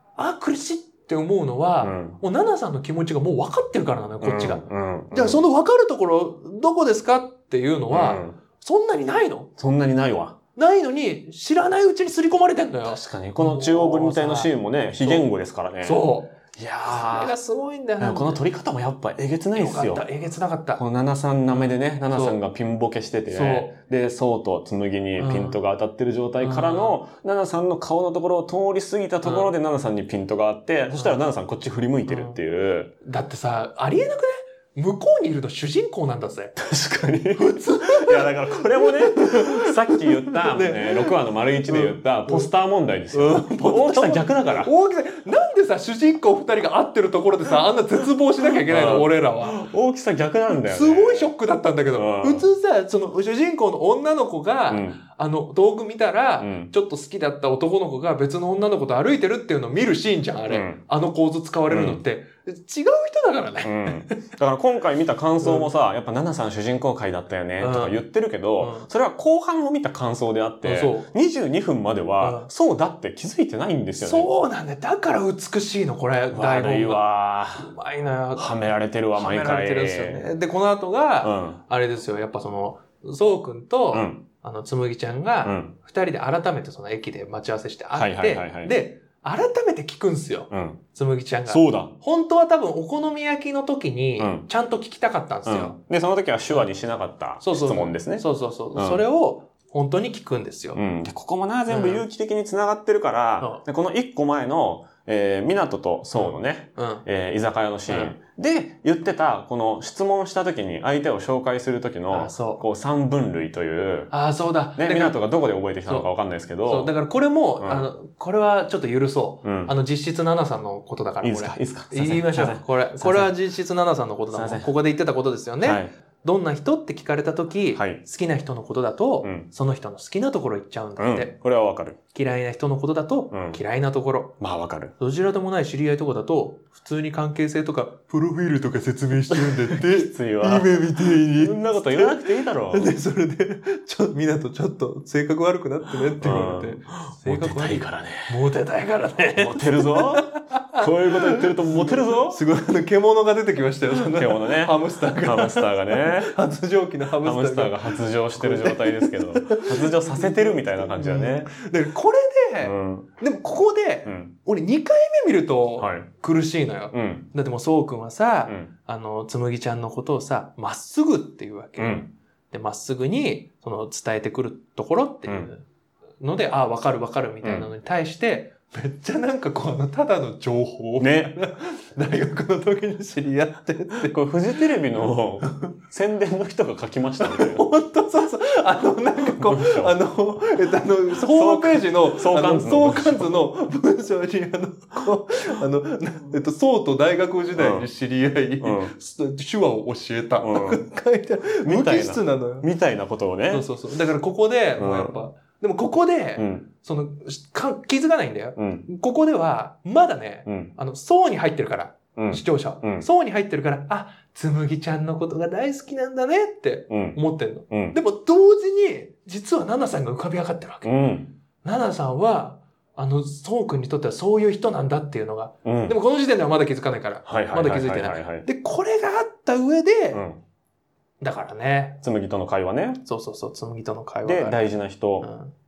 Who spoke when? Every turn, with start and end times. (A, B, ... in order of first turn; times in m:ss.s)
0:00.2-0:09.5 A
0:01.8-0:02.2 B
0:04.2-0:05.4 B
0:07.9-0:08.4 B
0:09.6-0:10.4 B
0:10.6-0:15.3 A
0:12.8-0:17.4 B
0:15.8-0:18.4 A
0:18.0-0:20.0 B
0:19.6-0:20.8 A
0:20.8-0:32.9 B
0:21.6-0:22.4 A
0:23.3-0:23.7 A
0:25.2-0:25.6 A
0:26.4-0:27.0 A
0:29.2-0:29.5 A
0:30.9-0:31.2 A
0:32.1-0:32.4 A
0:33.0-0:36.6 A
0:36.6-0:44.7 B
0:37.4-0:42.5 A
0:43.1-0:49.6 A
0:48.4-0:51.3 B
0:50.6-1:04.2 A
0:51.9-0:52.5 B
0:54.7-0:55.0 B
0:56.4-0:56.7 B
1:00.5-1:00.8 B
1:01.7-1:02.0 B
1:03.6-1:14.3 B
1:05.4-1:05.7 A
1:07.6-1:08.0 A
1:08.6-1:08.9 A
1:10.6-1:11.1 A
1:12.2-1:12.5 A
1:14.0-1:18.5 A
1:16.3-1:17.7 B
1:18.4-1:20.3 B
1:19.2-1:35.8 A
1:21.2-1:21.6 B
1:23.9-1:24.2 B
1:25.4-1:25.7 B
1:27.9-1:28.8 B
1:30.5-1:30.8 B
1:31.5-1:31.9 B
1:34.2-1:34.5 B
1:35.5-1:39.0 B
1:37.4-1:40.8 A
1:40.8-1:54.1 B
1:41.7-1:42.0 A
1:46.1-1:47.0 A
1:47.9-1:48.2 A
1:52.1-1:52.6 A
1:54.1-1:55.2 A
1:54.8-1:56.9 B
1:56.6-2:11.3 A
1:57.6-1:57.9 B
1:59.4-1:59.7 B
2:01.2-2:03.4 B
2:04.3-2:04.7 B
2:05.6-2:05.9 B
2:07.8-2:08.0 B
2:11.0-2:12.0 B
2:12.1-2:14.3 A
2:13.3-2:13.6 B
2:14.4-2:14.9 B
2:15.0-2:55.6 A
2:19.3-2:22.9 B
2:26.2-2:28.3 B
2:29.4-2:32.4 B
2:33.9-2:36.3 B
2:37.2-2:41.6 B
2:42.6-2:43.1 B
2:44.0-2:44.3 B
2:45.8-2:46.1 B
2:46.9-2:47.3 B
2:51.8-2:52.1 B
2:56.2-3:04.2 A
2:57.4-2:57.7 B
3:01.0-3:01.4 B
3:04.0-3:07.7 B
3:05.4-3:05.8 A
3:07.2-3:22.7 A
3:09.4-3:10.0 B
3:11.1-3:13.4 B
3:17.6-3:17.9 B
3:18.6-3:18.9 B
3:20.4-3:20.8 B
3:21.6-3:23.7 B
3:23.5-3:40.9 A
3:24.8-3:25.2 B
3:26.4-3:26.7 B
3:28.6-3:28.8 B
3:30.5-3:30.7 B
3:32.2-3:33.1 B
3:36.9-3:37.2 B
3:37.7-3:38.0 B
3:40.8-3:41.3 B
3:41.6-3:50.2 A
3:45.6-3:46.0 B
3:47.3-3:48.5 B
3:50.1-3:50.4 B
3:51.2-3:52.0 A
3:52.0-3:53.0 B
3:53.0-3:54.6 A
3:54.2-3:55.3 B
3:55.2-3:55.5 A